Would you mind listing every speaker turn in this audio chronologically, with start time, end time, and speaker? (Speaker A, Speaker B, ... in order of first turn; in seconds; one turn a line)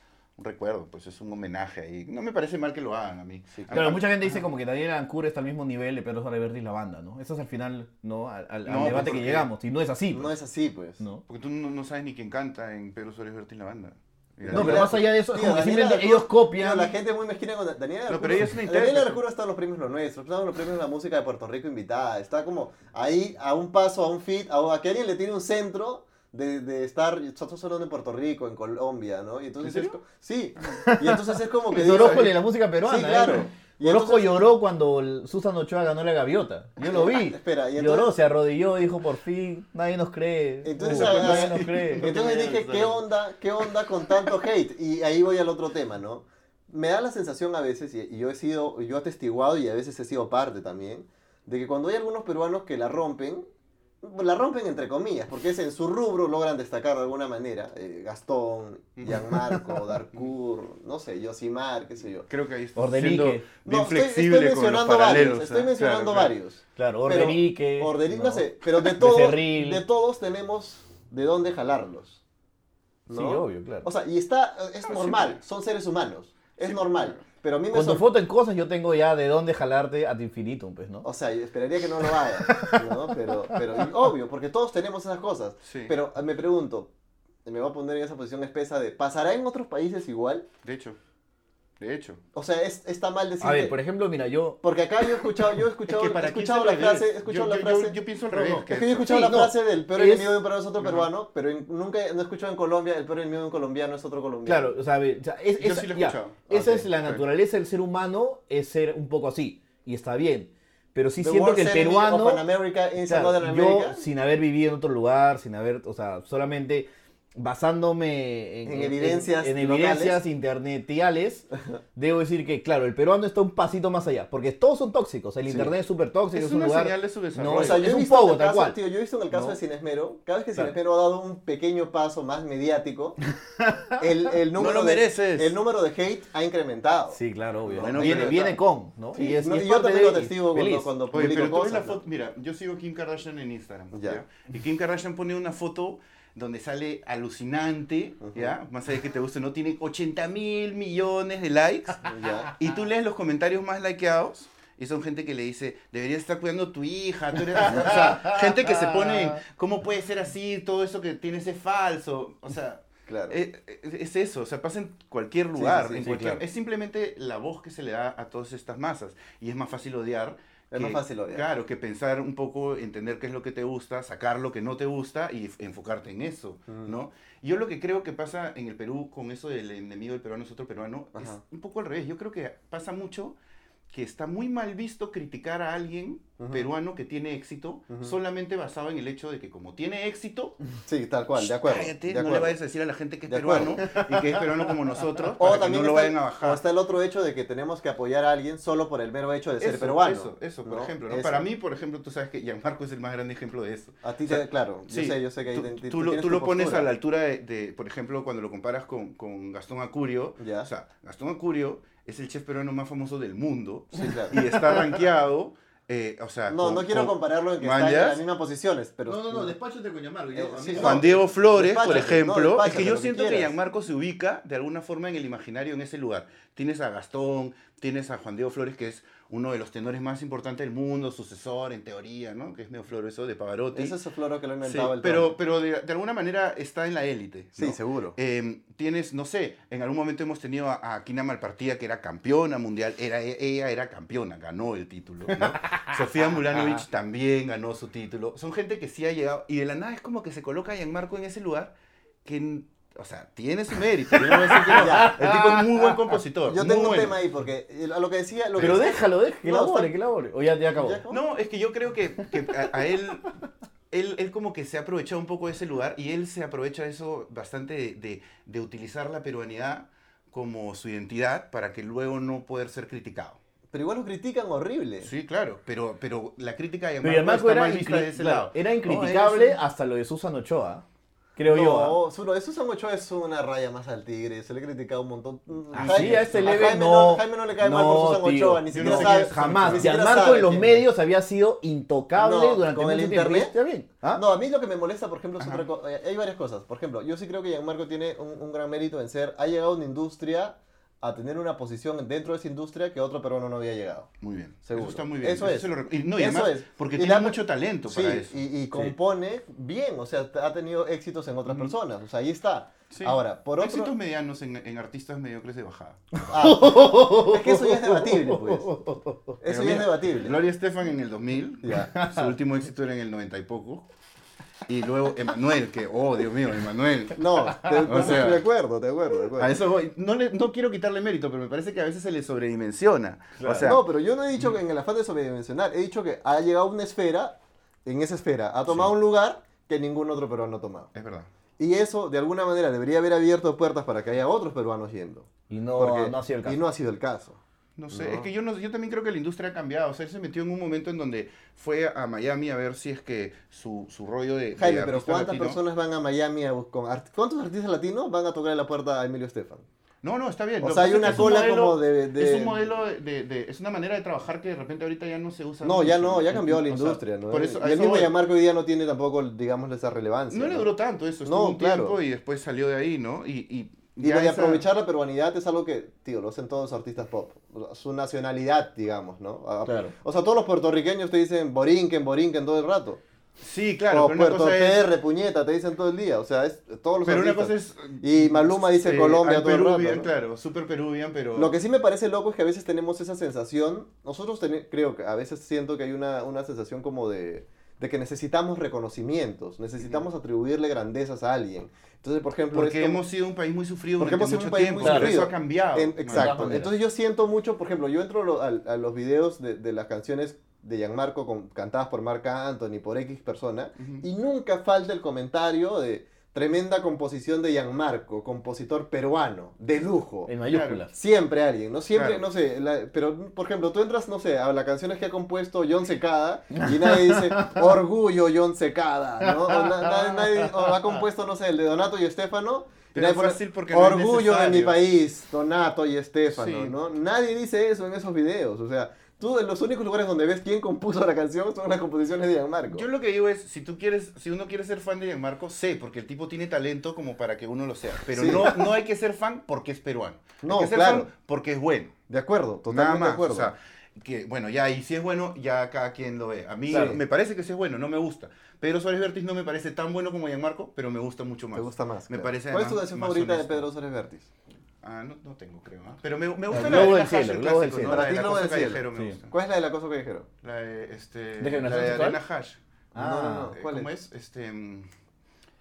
Speaker A: 0.4-4.4
Speaker B: 3.6-3.9
Speaker C: 3.7-10.3
Speaker A: 8.7-9.5
Speaker B: 10.1-11.0
Speaker A: 11.3-15.0
Speaker B: 14.4-34.5
Speaker C: 14.5-16.9
Speaker A: 18.1-19.2
Speaker A: 29.6-30.0
Speaker C: 30.8-42.2
Speaker A: 31.9-32.2
Speaker B: 36.8-38.1
Speaker B: 40.6-53.4
Speaker A: 40.8-43.0
Speaker B: 54.0-62.3
Speaker A: 59.0-59.4
Speaker C: 59.3-59.8
Speaker A: 62.3-66.3
Speaker C: 62.8-63.4
Speaker B: 63.6-72.2
Speaker C: 66.8-69.8
Speaker C: 73.1-73.9
Speaker B: 73.1-78.1
Speaker A: 74.8-75.4
Speaker A: 76.6-77.2
Speaker C: 77.7-81.0
Speaker B: 81.0-86.9
Speaker C: 82.0-83.8
Speaker A: 85.6-86.0
Speaker B: 87.5-90.5
Speaker A: 90.6-91.0
Speaker A: 91.8-92.2
Speaker B: 92.3-93.8
Speaker C: 93.4-94.6
Speaker B: 94.6-104.8
Speaker A: 95.8-99.2
Speaker C: 99.0-100.4
Speaker A: 100.8-101.1
Speaker C: 104.5-112.4
Speaker A: 105.6-107.2
Speaker B: 106.5-106.9
Speaker B: 111.2-114.0
Speaker C: 113.1-128.8
Speaker B: 118.7-120.2
Speaker B: 125.5-125.7
Speaker A: 126.3-127.9
Speaker B: 127.5-133.2
Speaker C: 133.6-134.0
Speaker B: 134.0-138.6
Speaker A: 134.5-135.6
Speaker C: 137.1-140.9
Speaker A: 137.8-138.6
Speaker B: 139.1-142.0
Speaker A: 141.1-183.4
Speaker B: 143.9-144.2
Speaker B: 148.2-148.6
Speaker B: 152.1-152.5
Speaker C: 157.6-159.1
Speaker B: 157.7-158.1
Speaker B: 163.1-163.3
Speaker B: 165.6-166.3
Speaker C: 166.0-166.4
Speaker B: 170.7-171.5
Speaker B: 176.7-176.9
Speaker B: 181.2-181.4
Speaker A: 183.9-190.6
Speaker B: 186.4-186.7
Speaker B: 187.9-188.2
Speaker B: 190.8-192.6
Speaker A: 191.4-196.6
Speaker B: 193.3-194.0
Speaker C: 193.9-194.4
Speaker B: 195.4-201.4
Speaker A: 199.6-218.2
Speaker B: 204.0-206.9
Speaker B: 210.4-210.7
Speaker B: 213.9-214.4
Speaker C: 214.5-214.8
Speaker B: 216.5-219.5
Speaker C: 219.1-221.2
Speaker B: 220.3-223.5
Speaker A: 220.8-233.9
Speaker B: 233.7-235.3
Speaker A: 234.6-251.7
Speaker B: 237.6-238.2
Speaker A: 252.2-257.2
Speaker C: 254.3-255.7
Speaker B: 254.7-255.2
Speaker B: 256.5-259.9
Speaker A: 258.6-258.8
Speaker C: 258.6-261.0
Speaker B: 260.7-261.2
Speaker A: 261.1-263.3
Speaker A: 263.9-273.4
Speaker B: 273.7-275.1
Speaker A: 275.0-279.6
Speaker C: 277.0-280.8
Speaker C: 281.4-282.0
Speaker B: 281.4-290.9
Speaker C: 285.7-294.2
Speaker A: 285.7-286.6
Speaker A: 288.7-289.9
Speaker B: 292.1-293.5
Speaker B: 294.1-304.1
Speaker A: 295.4-295.6
Speaker A: 304.2-308.4
Speaker B: 304.6-313.9
Speaker A: 311.5-311.7
Speaker A: 312.9-316.0
Speaker C: 316.1-319.3
Speaker B: 316.3-318.8
Speaker B: 319.4-320.4
Speaker A: 319.4-323.9
Speaker B: 321.6-321.9
Speaker C: 321.9-322.3
Speaker A: 324.7-328.4
Speaker B: 327.1-329.6
Speaker C: 327.5-327.9
Speaker A: 329.4-333.8
Speaker C: 333.4-333.7
Speaker B: 333.5-337.3
Speaker B: 337.9-340.9
Speaker A: 338.7-338.9
Speaker A: 340.9-341.3
Speaker B: 341.6-347.4
Speaker C: 345.5-346.6
Speaker A: 347.8-355.6
Speaker B: 347.9-348.3
Speaker B: 354.6-359.6
Speaker A: 360.0-368.1
Speaker B: 360.6-362.7
Speaker B: 365.6-370.7
Speaker A: 370.3-374.6
Speaker B: 371.2-372.0
Speaker B: 374.0-383.0
Speaker C: 379.6-379.9
Speaker A: 383.4-384.8
Speaker B: 383.9-390.1
Speaker A: 387.0-391.5
Speaker B: 391.3-403.0
Speaker A: 402.5-406.6
Speaker B: 404.0-420.3
Speaker C: 404.8-405.2
Speaker C: 406.1-406.7
Speaker A: 413.8-414.0
Speaker C: 420.3-420.9
Speaker A: 420.5-420.8
Speaker B: 420.9-442.9
Speaker A: 421.9-422.2
Speaker C: 426.5-427.6
Speaker C: 429.2-430.8
Speaker A: 432.9-434.8
Speaker A: 436.3-436.8
Speaker A: 442.7-451.9
Speaker B: 448.1-448.7
Speaker B: 450.4-451.1
Speaker B: 452.1-453.5
Speaker A: 452.7-463.6
Speaker C: 456.7-457.0
Speaker B: 456.7-457.0
Speaker B: 461.5-464.3
Speaker A: 464.8-469.3
Speaker C: 466.5-468.2
Speaker B: 466.7-466.9
Speaker B: 467.9-470.3
Speaker A: 470.4-472.6
Speaker C: 471.4-472.2
Speaker C: 472.9-473.6
Speaker B: 472.9-473.9
Speaker A: 473.5-474.9